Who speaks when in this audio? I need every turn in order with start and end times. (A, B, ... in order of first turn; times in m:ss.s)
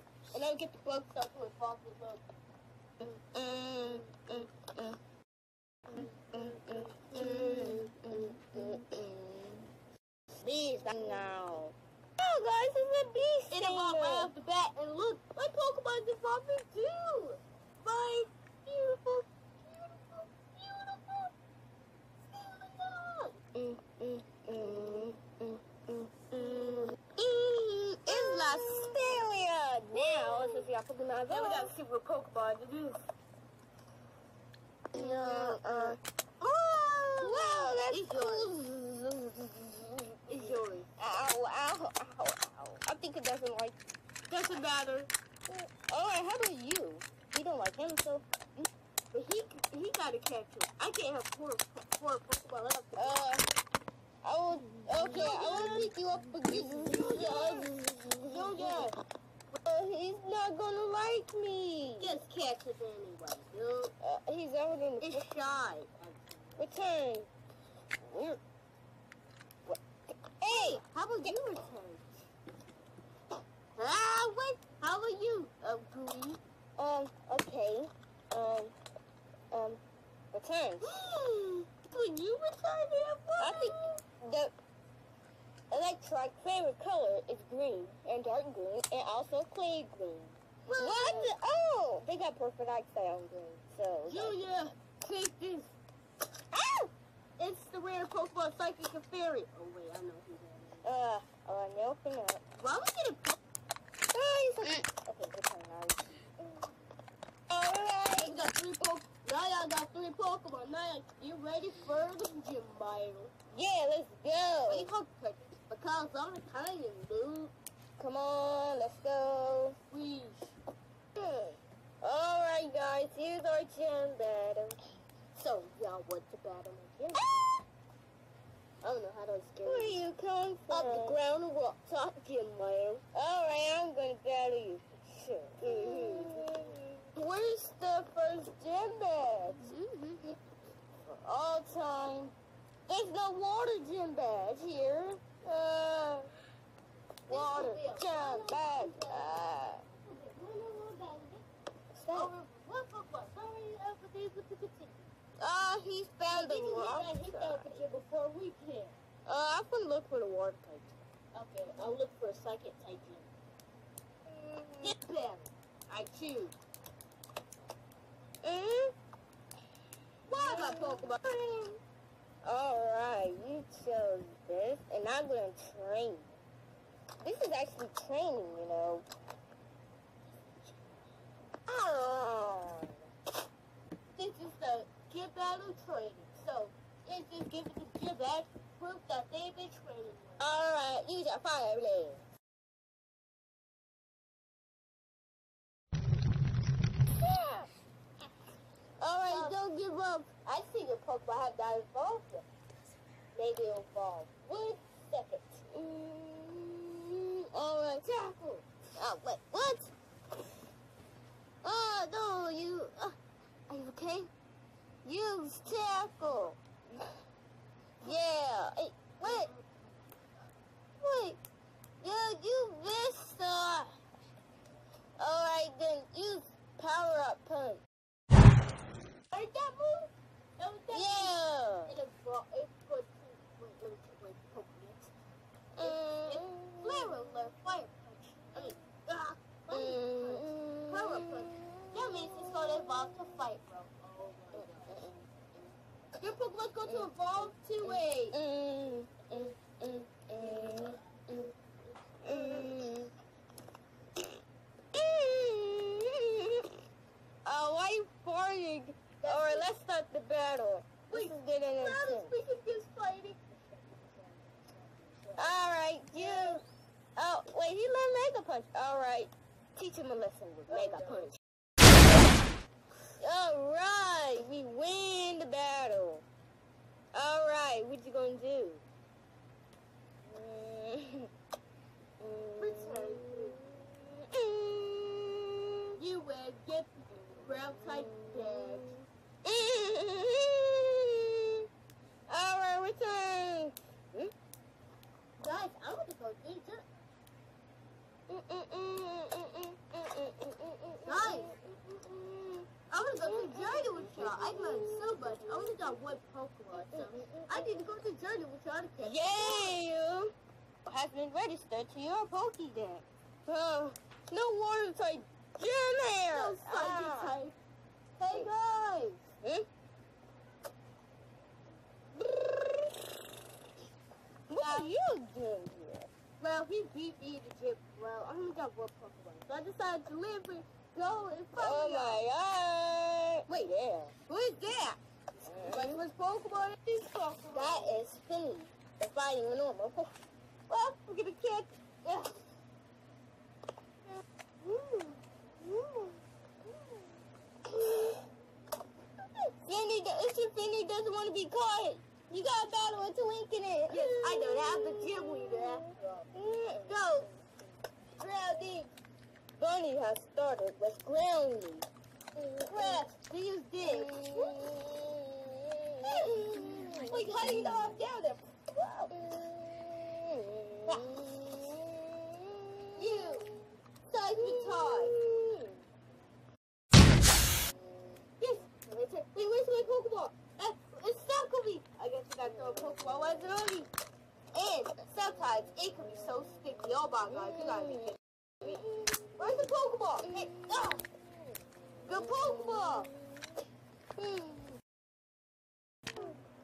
0:00.3-0:02.3 A
0:03.0-0:05.0 B
0:05.9-0:09.7 B
0:07.1-0:07.9 A
0:10.4-0:14.3 B
0:13.5-0:21.3 A
0:22.3-0:23.4 A
0:23.6-0:31.7 B
0:28.0-0:29.2 A
0:29.9-0:30.7 A
0:31.3-0:33.0 A
0:34.9-0:36.0 B
0:34.9-0:38.5 A
0:37.2-0:43.8 B
0:40.3-0:40.9 A
0:44.3-0:45.1 A
0:45.5-0:48.7 B
0:49.1-0:53.2 A
0:53.0-0:53.5 B
0:54.2-0:58.9 B
0:55.0-0:55.9 A
0:56.5-0:57.7 A
0:58.3-0:59.0 A
0:59.5-1:02.2 B
1:02.0-1:03.9 A
1:04.0-1:05.4 B
1:05.0-1:06.7 A
1:06.6-1:07.3 B
1:08.0-1:08.4 B
1:10.4-1:11.4 B
1:10.5-1:12.2 A
1:13.8-1:16.4 A
1:16.8-1:18.8 B
1:19.5-1:19.8 B
1:20.3-1:20.9 B
1:20.8-1:24.0 A
1:23.4-1:24.5 B
1:25.7-1:34.4 B
1:30.7-1:31.3 A
1:34.1-1:35.8 A
1:36.5-1:36.9 B
1:37.4-1:40.9 A
1:40.8-1:42.4 B
1:42.6-1:43.4 A
1:44.1-1:46.7 B
1:47.5-1:48.4 B
1:48.1-1:53.3 A
1:53.5-1:54.9 B
1:54.7-1:57.5 A
1:58.0-1:59.8 B
1:59.9-2:00.5 A
2:01.2-2:04.8 B
2:05.4-2:07.3 A
2:08.8-2:10.0 A
2:09.6-2:11.2 B
2:10.7-2:13.0 A
2:13.1-2:19.8 B
2:15.6-2:16.8 A
2:19.6-2:20.3 A
2:21.1-2:22.3 B
2:22.9-2:26.3 B
2:27.3-2:29.8 B
2:27.3-2:31.4 A
2:32.0-2:32.3 B
2:32.1-2:35.1 A
2:35.4-2:37.8 B
2:36.3-2:38.9 A
2:39.3-2:41.0 B
2:41.3-2:43.3 A
2:44.3-2:44.9 B
2:44.8-2:46.6 A
2:48.4-2:48.9 B
2:50.3-2:51.8 A
2:50.4-2:51.1 B
2:52.4-2:56.4 B
2:57.2-2:59.1 B
3:01.7-3:03.0 B
3:04.1-3:10.5 A
3:10.4-3:12.2 B
3:17.2-3:17.7 B
3:19.0-3:20.3 B
3:19.3-3:19.6 A
3:20.4-3:22.4 A
3:23.3-3:25.6 A
3:25.7-3:28.1 B
3:28.0-3:28.6 A
3:29.0-3:29.9 B
3:31.6-3:33.2 B
3:33.7-3:34.3 B
3:35.0-3:36.6 B
3:38.0-3:39.5 B
3:39.2-3:39.7 A
3:41.0-3:41.4 B
3:42.0-3:43.9 B
3:45.2-3:47.8 B
3:49.3-3:55.1 A
3:50.9-3:51.9 B
3:55.8-3:57.2 B
3:55.8-4:05.1 A
3:59.7-4:03.3 B
4:04.5-4:05.2 B
4:06.2-4:08.4 A
4:06.9-4:07.1 B
4:07.8-4:11.5 B
4:10.4-4:10.8 A
4:12.2-4:13.1 B
4:12.2-4:12.8 A
4:14.9-4:16.7 B
4:17.4-4:22.3 B
4:19.2-4:19.7 A
4:21.1-4:26.6 A
4:25.4-4:26.6 B
4:27.2-4:31.3 B
4:30.7-4:31.4 A
4:33.2-4:36.2 B
4:37.1-4:38.8 B
4:40.2-4:41.3 B
4:42.2-4:45.4 B
4:42.6-4:43.6 A
4:46.0-4:49.0 A
4:47.4-4:48.9 B
4:49.4-4:51.6 B
4:52.3-4:54.3 B
4:55.4-4:56.8 A
4:58.3-5:05.9 B
5:01.0-5:01.6 A
5:02.8-5:09.8 A
5:06.7-5:07.8 B
5:09.0-5:10.3 B
5:10.8-5:12.2 B
5:12.2-5:13.0 A
5:13.4-5:17.4 B
5:16.3-5:17.6 A
5:18.2-5:19.2 A
5:22.2-5:22.9 B
5:24.5-5:26.1 B
5:24.6-5:24.9 A
5:26.4-5:32.2 A
5:31.6-5:34.1 B
5:33.5-5:33.7 A
5:34.3-5:38.0 A
5:35.4-5:36.0 B
5:37.5-5:40.1 B
5:40.7-5:42.4 A
5:44.6-5:45.1 A
5:45.7-5:46.0 B
5:47.7-5:48.2 B
5:49.6-5:55.8 B
5:53.9-5:56.2 A
5:56.3-5:57.0 B
5:56.9-5:57.3 A
5:58.2-5:58.9 A
5:59.6-6:03.0 B
6:02.7-6:04.8 A
6:03.8-6:07.9 B
6:06.0-6:09.1 A
6:09.1-6:13.7 B
6:10.9-6:11.1 A
6:12.9-6:13.5 A
6:14.1-6:15.2 A
6:14.4-6:15.8 B
6:18.4-6:23.9 A
6:24.5-6:28.8 A
6:27.3-6:28.1 B
6:28.6-6:31.5 B
6:29.4-6:31.0 A
6:32.0-6:33.5 B
6:32.0-6:33.1 A
6:34.2-6:34.8 B